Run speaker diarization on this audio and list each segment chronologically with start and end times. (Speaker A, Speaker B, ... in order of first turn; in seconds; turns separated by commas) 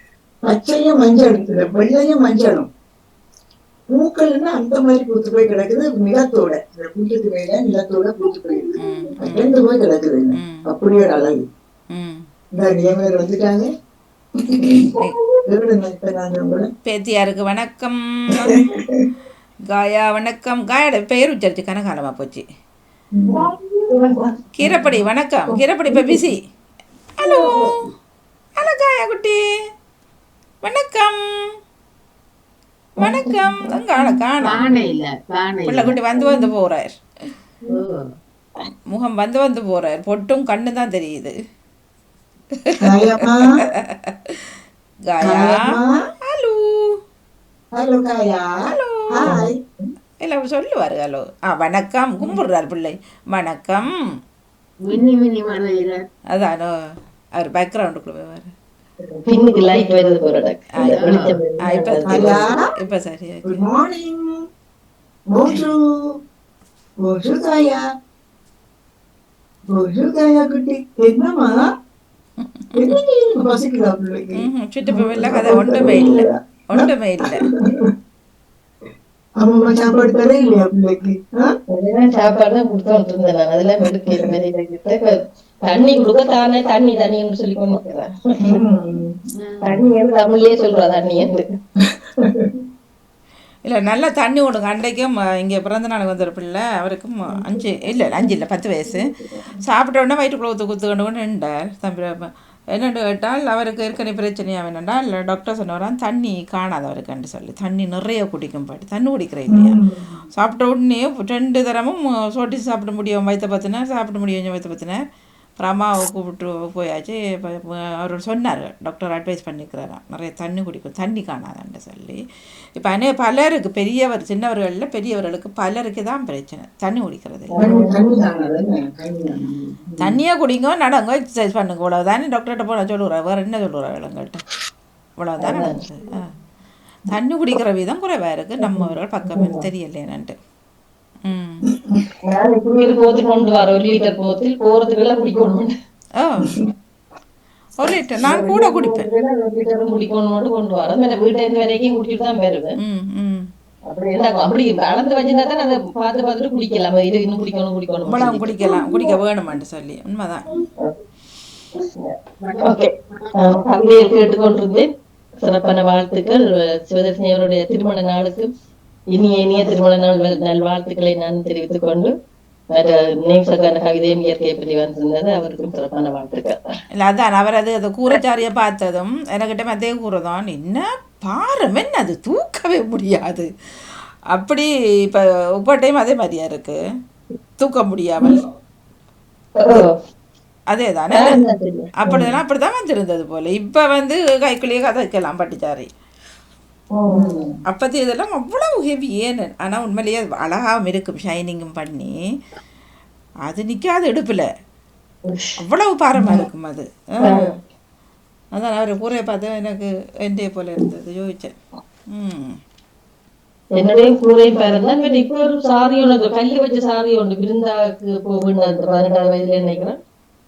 Speaker A: 0.5-2.7, Speaker A: 3.9-11.4, Speaker B: 8.8-9.5, Speaker B: 10.4-10.7, Speaker B: 11.9-12.2, Speaker A: 12.6-13.7, Speaker A: 14.5-14.9, Speaker A: 15.5-16.7, Speaker B: 16.9-18.6, Speaker A: 18.7-19.1, Speaker B: 19.7-22.4, Speaker A: 23.1-23.5, Speaker C: 23.4-24.3, Speaker B: 24.5-26.4, Speaker B: 27.2-27.7, Speaker B: 28.6-29.4, Speaker B: 30.6-31.5, Speaker B: 33.0-34.6, Speaker A: 33.0-33.3, Speaker D: 34.4-36.0, Speaker B: 35.7-36.9, Speaker D: 37.7-38.0, Speaker B: 38.9-41.3, Speaker A: 42.8-43.5, Speaker B: 43.8-44.3, Speaker B: 45.1-45.6, Speaker A: 45.2-45.9, Speaker B: 46.3-47.0, Speaker A: 47.7-48.5, Speaker B: 48.7-49.3, Speaker A: 49.1-49.6, Speaker B: 50.2-53.9, Speaker D: 54.8-56.0, Speaker B: 56.3-56.7, Speaker B: 57.4-58.5, Speaker C: 59.2-62.4, Speaker B: 60.8-61.0, Speaker D: 60.8-61.4, Speaker B: 61.6-63.6, Speaker A: 62.1-62.6, Speaker A: 63.4-64.3, Speaker A: 65.3-65.8, Speaker A: 67.0-67.8, Speaker A: 69.7-71.6, Speaker A: 72.8-76.9, Speaker B: 74.4-77.4, Speaker A: 79.4-81.5, Speaker C: 81.7-88.5, Speaker A: 88.4-89.1, Speaker D: 89.4-89.8, Speaker C: 89.6-91.5, Speaker A: 91.8-92.5, Speaker B: 93.7-99.1, Speaker B: 99.6-109.8, Speaker A: 109.5-110.2, Speaker B: 110.3-115.0, Speaker B: 115.6-122.2, Speaker B: 122.8-127.5, Speaker C: 127.5-128.0, Speaker A: 127.6-130.2, Speaker B: 130.0-134.4, Speaker B: 135.2-136.3, Speaker C: 135.4-135.8, Speaker B: 137.1-140.3, Speaker C: 138.6-139.7, Speaker B: 141.2-141.6, Speaker C: 142.2-145.7, Speaker B: 146.2-146.5, Speaker B: 147.8-149.1, Speaker C: 148.3-152.8, Speaker B: 152.8-153.4, Speaker C: 153.8-158.6, Speaker B: 158.1-160.6, Speaker C: 161.8-164.9, Speaker D: 162.4-162.7, Speaker C: 165.4-168.5, Speaker C: 169.1-172.1, Speaker C: 172.7-176.6, Speaker B: 176.9-183.5, Speaker B: 184.3-186.8, Speaker B: 187.6-188.4, Speaker C: 189.6-189.9, Speaker B: 190.7-191.4, Speaker C: 191.1-192.4, Speaker B: 192.0-195.9, Speaker C: 196.9-197.5, Speaker A: 197.1-197.5, Speaker B: 197.7-202.1, Speaker B: 203.5-204.5, Speaker C: 205.3-205.6, Speaker B: 205.6-207.1, Speaker C: 207.2-207.6, Speaker B: 208.5-211.5, Speaker B: 212.1-212.6, Speaker C: 213.8-220.0